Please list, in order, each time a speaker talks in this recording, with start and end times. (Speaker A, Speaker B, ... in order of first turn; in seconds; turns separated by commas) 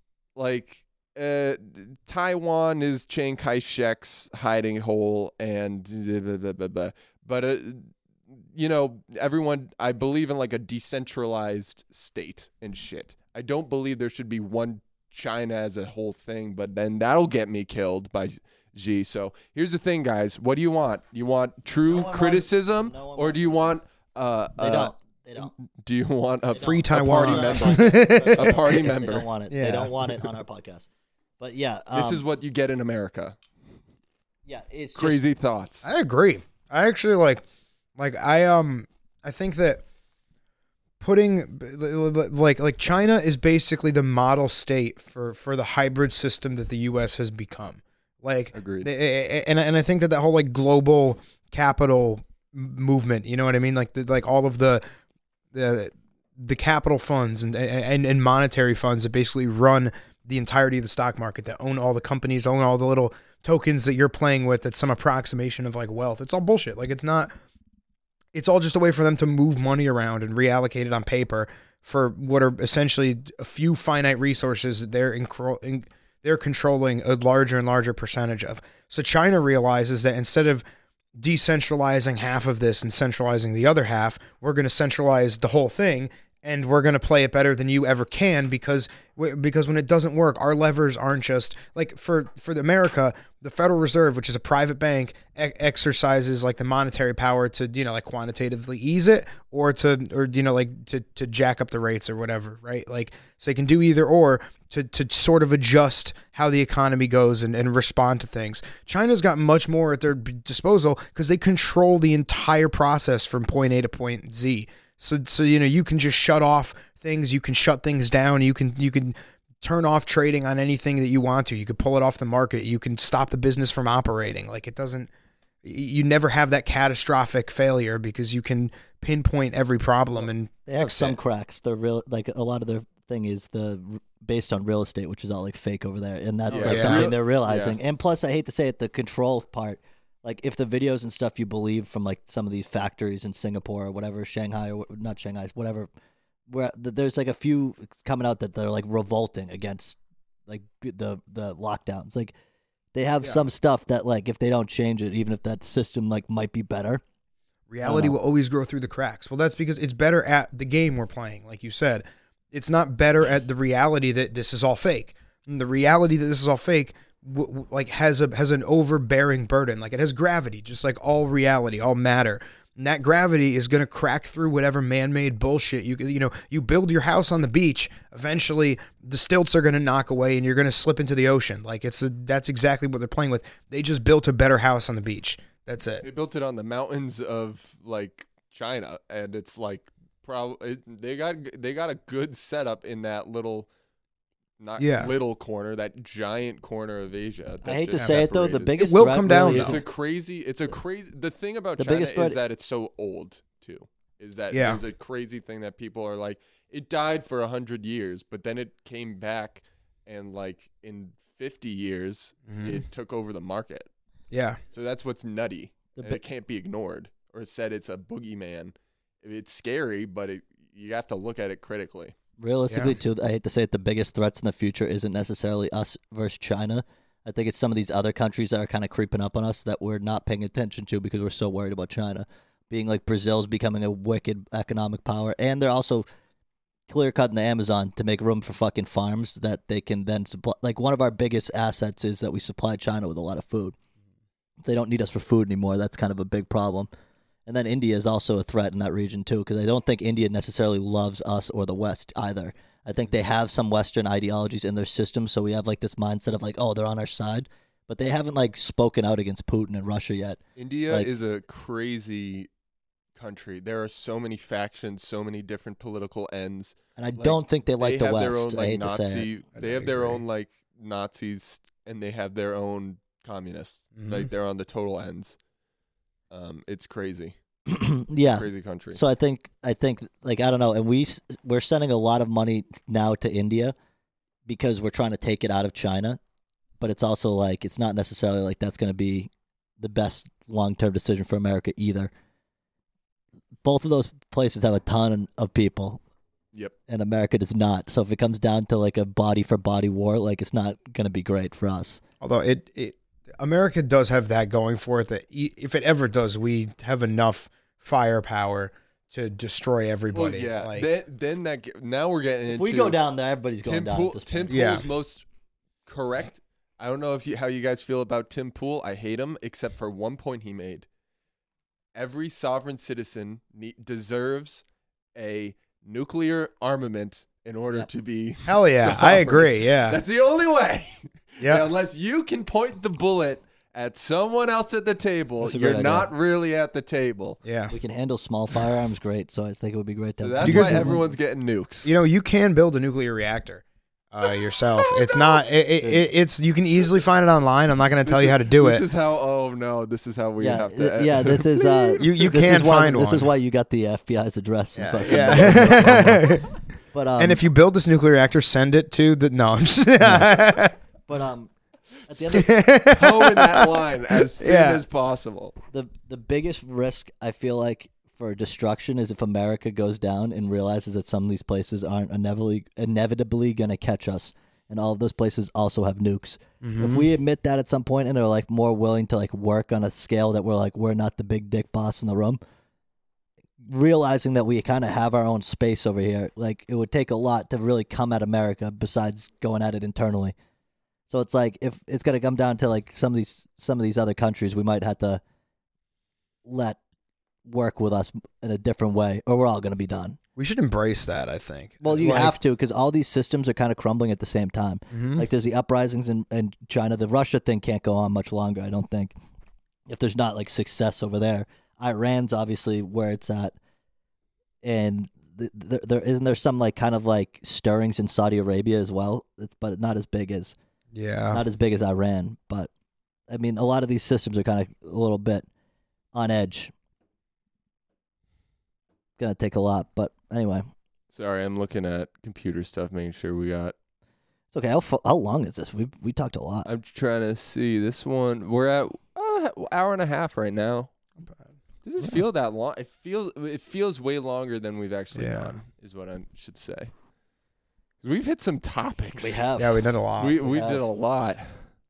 Speaker A: 0.3-29.3, Speaker B: 21.9-23.8, Speaker B: 24.6-25.5, Speaker B: 26.5-30.9, Speaker C: 26.6-28.8, Speaker C: 29.5-30.3, Speaker B: 31.4-32.2, Speaker A: 31.9-33.4, Speaker B: 34.5-35.2, Speaker A: 35.0-35.9, Speaker C: 35.8-37.4, Speaker C: 38.0-39.8, Speaker C: 41.0-54.8, Speaker A: 48.5-48.9, Speaker C: 55.5-67.3, Speaker C: 68.3-80.6, Speaker C: 81.2-125.1, Speaker C: 125.6-131.2, Speaker B: 130.2-145.9, Speaker A: 136.5-137.8, Speaker C: 136.5-137.1, Speaker B: 146.5-152.3, Speaker B: 152.9-157.0, Speaker C: 157.7-186.1, Speaker B: 157.8-158.2, Speaker A: 186.0-193.7, Speaker A: 194.6-198.8, Speaker C: 194.8-195.1, Speaker B: 197.6-199.8, Speaker C: 198.0-199.8, Speaker A: 199.3-213.9, Speaker B: 201.8-202.4, Speaker C: 204.5-204.8, Speaker C: 212.5-212.8, Speaker C: 214.3-214.6, Speaker A: 214.7-222.1, Speaker B: 216.0-216.2, Speaker B: 222.4-236.1, Speaker C: 222.7-222.9, Speaker B: 236.9-243.8, Speaker B: 244.6-246.9, Speaker B: 247.5-261.1, Speaker A: 260.6-262.5, Speaker A: 263.1-275.4, Speaker B: 267.0-269.3, Speaker C: 269.6-270.2, Speaker C: 274.0-274.3, Speaker A: 276.3-277.4, Speaker B: 277.7-283.8, Speaker A: 278.3-279.0, Speaker B: 284.5-286.2, Speaker B: 286.8-292.1, Speaker B: 293.6-296.0, Speaker B: 296.9-302.0, Speaker C: 302.2-310.9, Speaker A: 310.1-313.0, Speaker B: 312.5-314.8, Speaker A: 313.6-315.2, Speaker C: 314.5-314.9, Speaker A: 315.9-320.9, Speaker A: 321.9-324.6, Speaker A: 325.1-337.4, Speaker C: 328.5-330.0, Speaker C: 331.4-331.7, Speaker B: 335.4-336.1, Speaker C: 337.4-337.7, Speaker B: 337.7-341.1, Speaker A: 340.2-341.9, Speaker C: 340.4-341.0, Speaker C: 341.8-348.8, Speaker B: 345.8-346.1, Speaker A: 348.1-352.0, Speaker B: 350.4-356.4, Speaker C: 352.0-353.3, Speaker C: 354.8-356.5, Speaker A: 355.2-355.6, Speaker B: 356.9-357.4, Speaker C: 357.2-360.8, Speaker B: 360.0-360.3, Speaker B: 361.1-361.5, Speaker B: 362.1-362.7, Speaker C: 362.2-364.8, Speaker A: 362.9-365.6, Speaker B: 365.7-382.4, Speaker C: 376.6-377.1, Speaker B: 383.6-390.4, Speaker B: 391.1-395.2, Speaker B: 396.4-396.8, Speaker B: 397.4-400.2, Speaker C: 400.4-402.4, Speaker B: 401.8-409.1, Speaker C: 404.9-405.3, Speaker B: 409.9-413.6, Speaker B: 414.6-420.6, Speaker C: 420.9-421.4, Speaker B: 421.3-422.7, Speaker B: 423.3-425.5, Speaker B: 426.1-426.7, Speaker B: 429.2-430.7, Speaker A: 431.1-433.8, Speaker B: 434.5-436.7, Speaker A: 436.7-440.9, Speaker A: 441.8-446.9, Speaker C: 445.1-445.6, Speaker A: 448.0-449.4, Speaker B: 449.2-449.9, Speaker C: 449.6-450.4, Speaker A: 450.2-451.6, Speaker B: 450.4-450.9